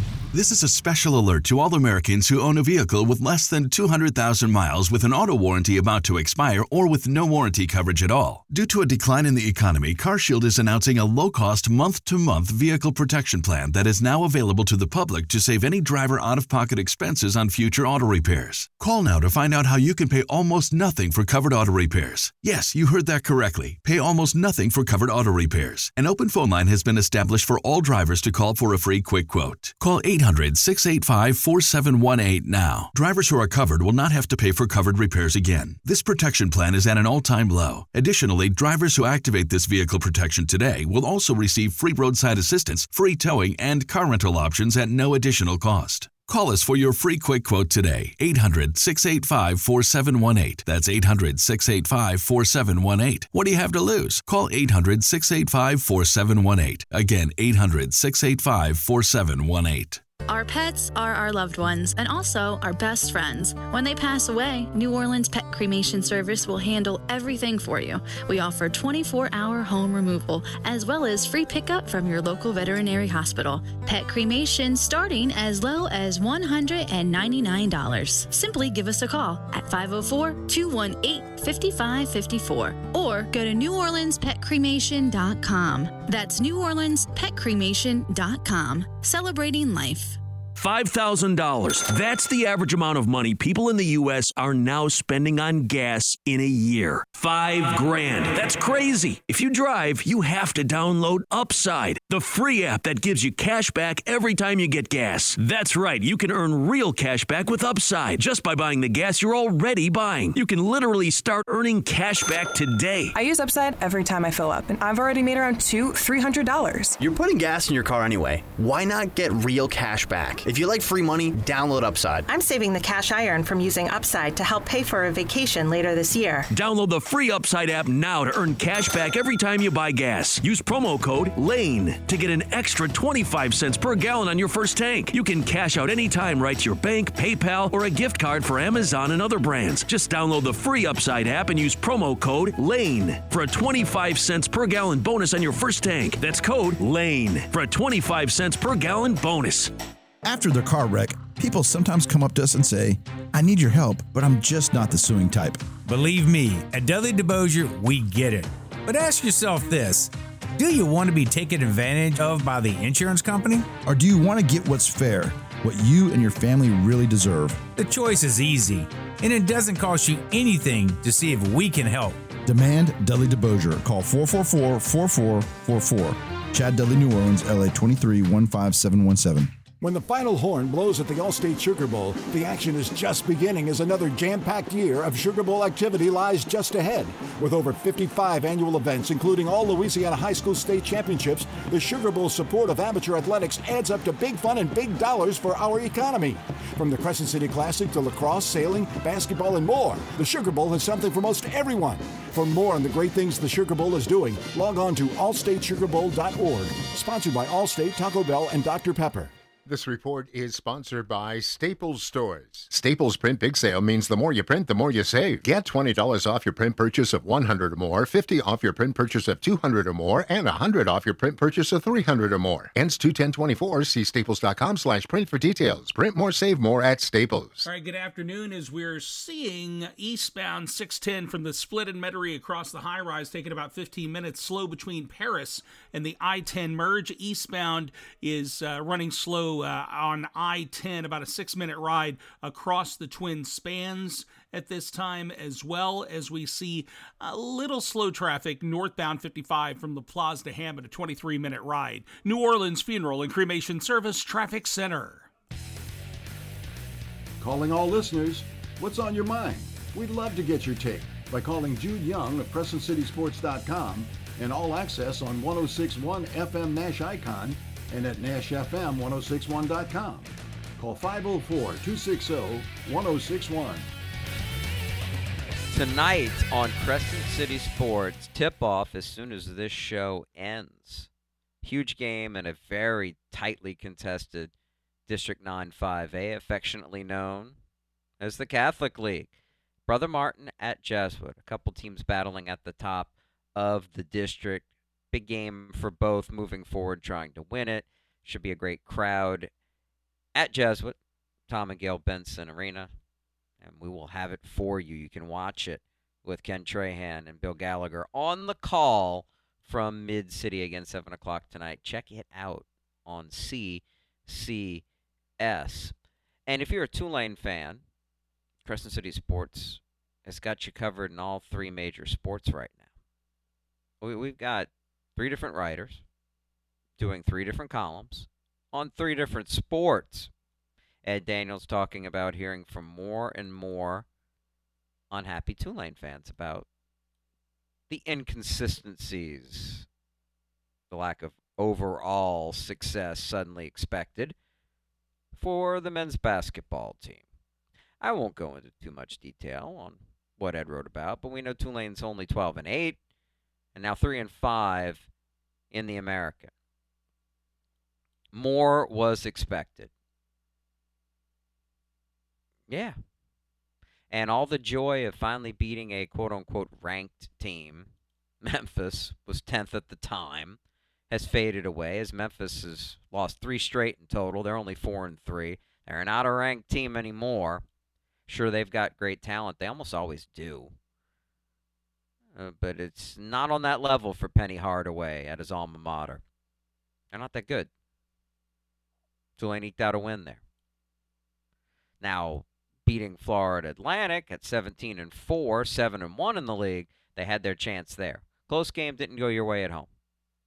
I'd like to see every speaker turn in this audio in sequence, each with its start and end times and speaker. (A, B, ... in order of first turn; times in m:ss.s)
0:00.3-1:00.0 A
1:00.3-1:30.2 B
1:30.6-1:53.1 C
1:53.1-1:57.0 D
1:57.0-2:02.3 E
2:02.3-2:06.4 F
2:06.5-2:29.7 C
2:30.2-2:35.6 G
2:35.8-2:43.7 H
2:43.8-2:47.6 G
2:47.8-2:52.2 H
2:52.4-2:59.5 G
2:59.8-3:29.3 I
3:29.6-3:47.6 J
3:47.6-4:15.3 K
4:17.4-4:33.9 I
4:35.7-4:41.1 L
4:41.6-4:44.5 L
4:45.1-4:47.6 L
4:48.2-4:49.3 L
4:49.9-4:59.5 L
5:00.3-5:01.0 L
5:01.5-5:02.9 L
5:03.6-5:14.8 L
5:15.4-5:15.9 L
5:16.5-5:17.8 L
5:18.6-5:22.8 L
5:24.0-5:26.0 L
5:27.0-5:30.3 L
5:31.0-5:34.0 L
5:35.1-5:36.6 L
5:37.9-5:39.8 L
5:40.9-5:44.3 L
5:45.3-5:47.2 L
5:48.0-5:53.0 L
5:53.7-5:55.1 L
5:55.7-5:56.5 L
5:58.3-5:59.9 L
6:02.7-6:03.0 L
6:04.1-6:07.9 L
6:08.4-6:10.6 L
6:11.1-6:17.6 L
6:18.3-6:20.7 L
6:22.3-6:26.2 L
6:27.1-6:27.7 L
6:29.4-6:30.4 L
6:32.0-6:39.9 L